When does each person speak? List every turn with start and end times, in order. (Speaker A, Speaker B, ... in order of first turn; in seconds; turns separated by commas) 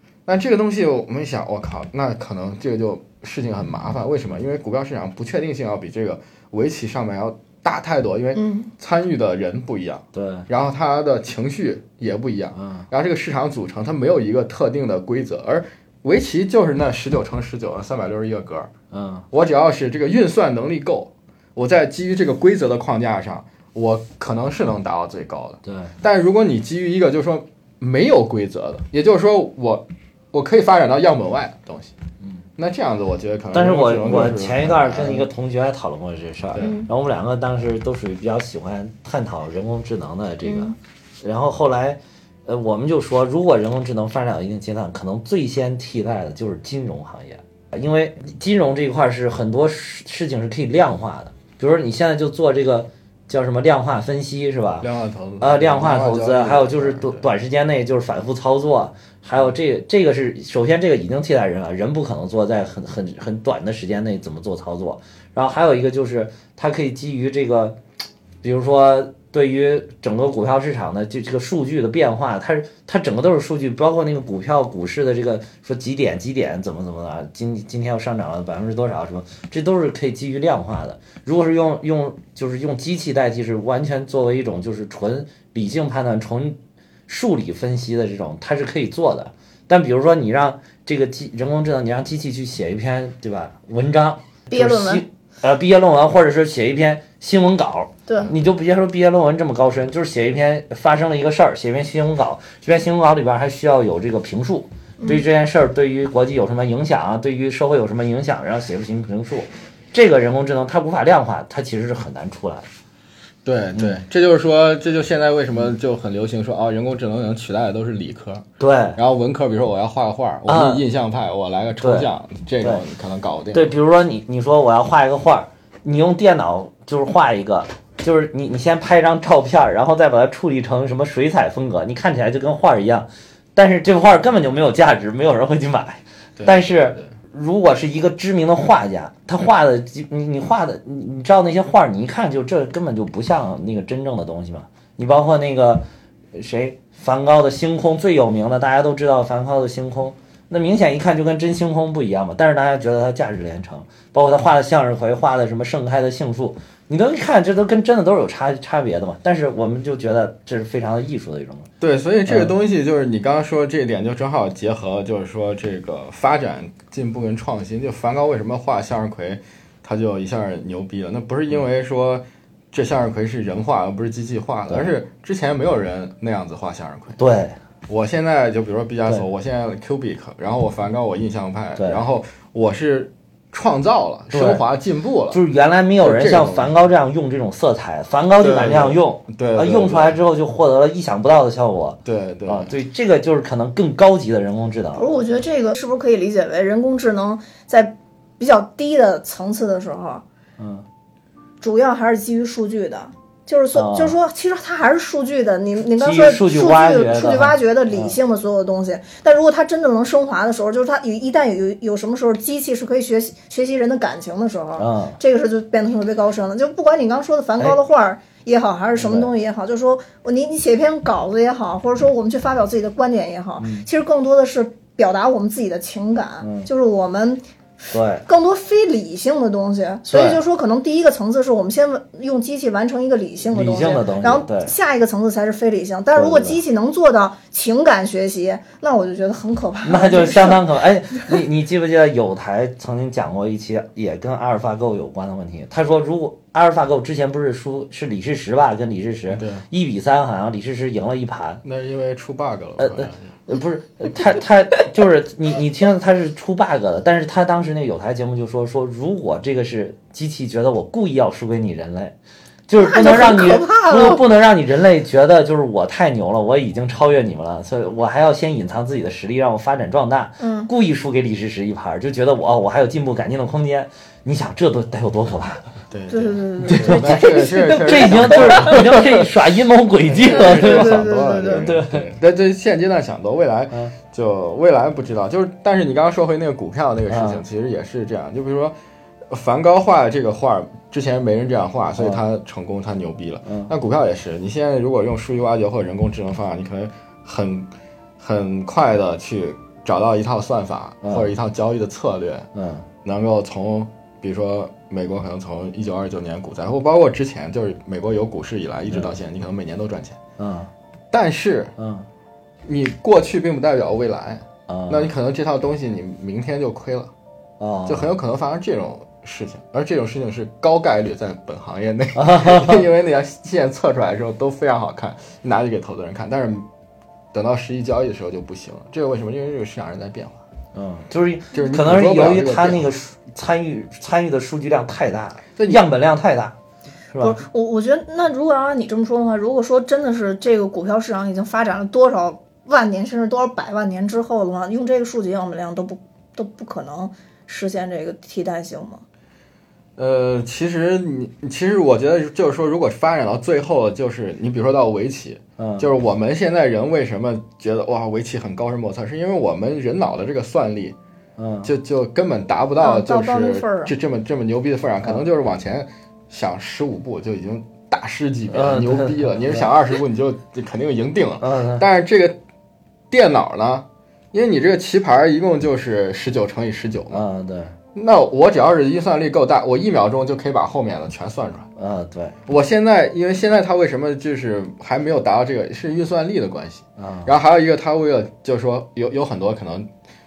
Speaker A: 0.3-18.7, Speaker B: 8.3-8.7, Speaker C: 10.1-10.5, Speaker C: 12.6-12.9, Speaker C: 18.9-19.2, Speaker A: 19.3-32.0, Speaker C: 25.6-25.9, Speaker A: 32.6-35.3, Speaker C: 33.5-54.9, Speaker A: 36.5-36.8, Speaker B: 36.6-36.9, Speaker B: 40.5-40.8, Speaker A: 54.8-57.3, Speaker C: 55.4-67.8, Speaker C: 68.4-86.6, Speaker C: 87.1-112.7, Speaker B: 94.5-95.0, Speaker B: 98.1-98.3, Speaker B: 105.0-105.2, Speaker A: 113.5-123.7, Speaker C: 118.6-119.0, Speaker C: 120.5-120.8, Speaker C: 121.8-122.1, Speaker C: 123.5-145.8, Speaker A: 136.4-137.1, Speaker C: 146.3-161.7, Speaker A: 161.8-177.2, Speaker C: 162.3-162.5, Speaker C: 177.2-177.6, Speaker A: 177.9-185.4, Speaker C: 181.8-182.0, Speaker C: 184.3-184.6, Speaker C: 185.3-195.1, Speaker A: 186.0-186.7, Speaker A: 188.4-190.2, Speaker A: 192.1-192.8, Speaker B: 194.9-200.2, Speaker C: 200.6-200.8, Speaker B: 201.6-227.4, Speaker C: 203.8-204.2, Speaker C: 206.0-208.2, Speaker C: 214.8-215.2, Speaker C: 219.0-219.3, Speaker C: 223.6-223.9, Speaker C: 226.4-226.7, Speaker C: 227.9-228.3, Speaker B: 228.2-240.7, Speaker C: 230.1-230.4, Speaker C: 233.5-234.7, Speaker C: 236.2-236.6, Speaker C: 239.8-251.6, Speaker A: 249.3-249.6, Speaker A: 251.6-253.3, Speaker C: 252.8-262.1, Speaker C: 262.7-275.7, Speaker B: 262.8-264.2, Speaker B: 270.4-270.7, Speaker A: 275.9-279.3, Speaker B: 276.1-278.9, Speaker C: 276.6-282.1, Speaker A: 280.1-288.8, Speaker B: 280.2-281.7, Speaker C: 287.1-287.4, Speaker A: 289.3-302.5, Speaker C: 293.5-293.7, Speaker C: 301.0-301.3, Speaker C: 302.6-302.9, Speaker A: 303.1-310.2, Speaker C: 310.4-310.7, Speaker A: 311.1-311.8, Speaker C: 311.8-312.1, Speaker A: 312.7-317.1, Speaker C: 314.7-315.1, Speaker C: 317.6-318.1, Speaker A: 317.9-326.7, Speaker C: 322.2-322.9, Speaker A: 327.3-330.4, Speaker C: 330.7-336.6, Speaker A: 331.5-332.9, Speaker A: 335.6-335.8, Speaker C: 337.1-337.4, Speaker B: 337.2-349.0, Speaker A: 350.0-361.0, Speaker C: 355.6-355.9, Speaker C: 361.4-361.7, Speaker A: 361.6-372.4, Speaker B: 362.8-363.9, Speaker C: 368.5-369.7, Speaker C: 371.4-371.9, Speaker A: 373.1-377.2, Speaker C: 377.1-377.7, Speaker A: 377.9-381.7, Speaker C: 381.8-382.4, Speaker A: 382.5-389.9, Speaker C: 387.0-387.3